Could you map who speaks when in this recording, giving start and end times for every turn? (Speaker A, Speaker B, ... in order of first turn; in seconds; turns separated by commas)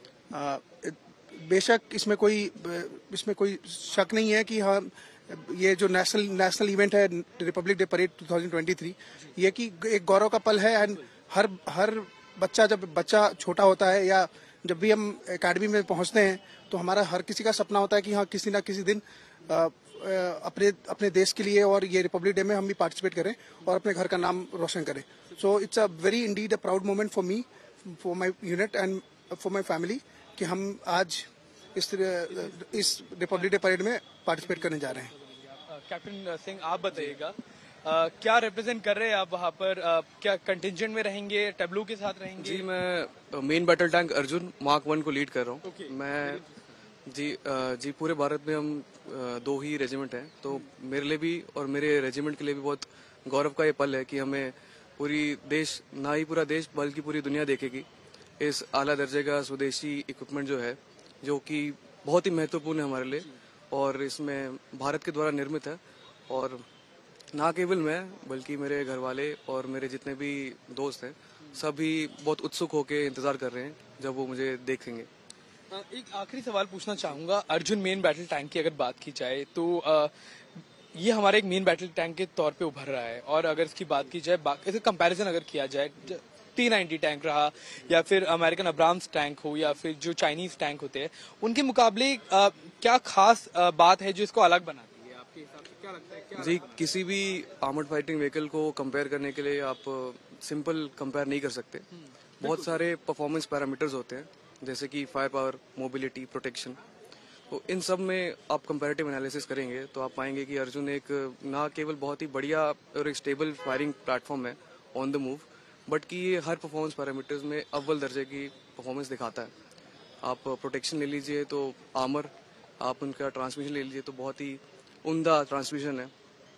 Speaker A: 0.3-35.1, Speaker B: 34.5-42.7, Speaker C: 42.4-46.4, Speaker B: 45.6-46.4, Speaker C: 47.1-57.9, Speaker C: 58.4-66.7, Speaker C: 67.3-75.1, Speaker B: 75.7-80.1, Speaker B: 81.0-96.9, Speaker C: 96.3-101.9, Speaker B: 102.4-102.9, Speaker C: 102.4-106.8, Speaker C: 107.5-119.5, Speaker C: 120.2-126.1